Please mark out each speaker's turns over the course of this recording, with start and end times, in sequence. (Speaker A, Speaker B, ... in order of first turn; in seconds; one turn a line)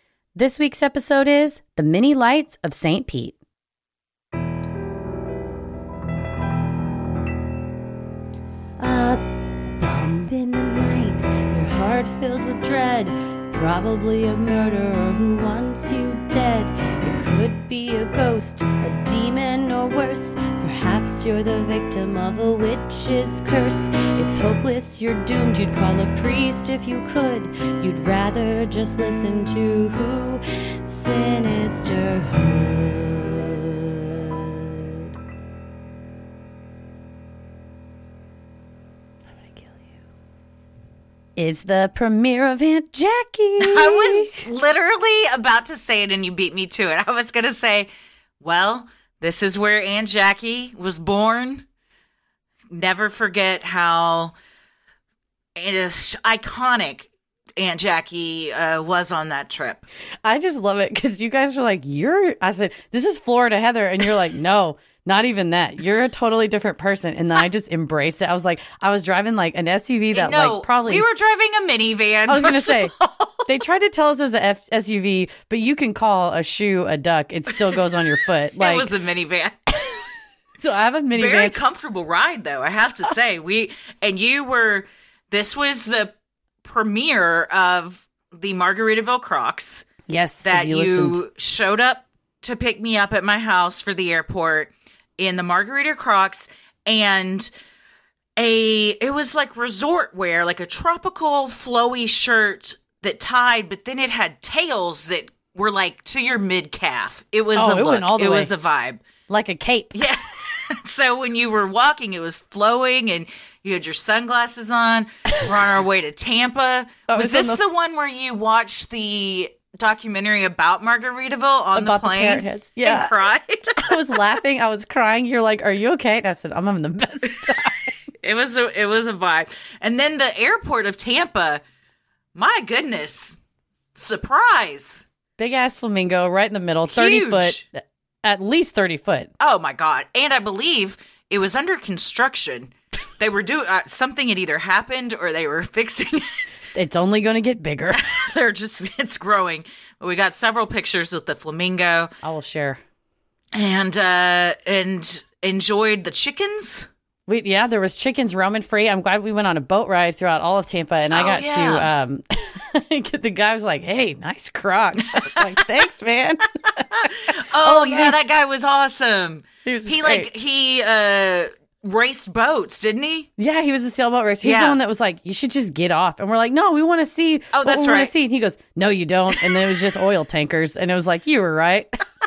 Speaker A: 0.4-3.4
Speaker B: 8.8-9.2
Speaker B: 9.8-33.6
Speaker A: 41.4-44.5
Speaker C: 43.6-47.9
Speaker C: 48.4-51.6
Speaker C: 52.7-54.3
Speaker C: 55.6-59.9
Speaker A: 60.2-71.1
Speaker C: 70.1-73.6
Speaker A: 72.3-72.9
Speaker A: 73.5-78.9
Speaker C: 78.6-79.6
Speaker A: 80.6-81.5
Speaker C: 81.1-86.1
Speaker C: 86.6-89.9
Speaker A: 90.1-91.2
Speaker C: 90.4-97.5
Speaker C: 98.4-109.0
Speaker A: 107.5-108.5
Speaker A: 109.3-110.0
Speaker C: 109.9-123.9
Speaker A: 117.1-117.6
Speaker A: 121.8-123.1
Speaker A: 123.8-127.8
Speaker C: 128.2-131.6
Speaker C: 132.3-133.4
Speaker C: 133.9-135.0
Speaker A: 135.4-139.3
Speaker C: 136.9-137.6
Speaker C: 139.4-146.3
Speaker A: 146.8-148.0
Speaker C: 148.0-152.1
Speaker A: 152.2-152.8
Speaker C: 153.5-156.9
Speaker A: 157.3-168.1
Speaker C: 161.1-161.9
Speaker C: 165.2-165.5
Speaker C: 167.4-173.3
Speaker A: 169.7-170.3
Speaker A: 173.4-182.0
Speaker C: 174.4-174.8
Speaker C: 177.5-178.1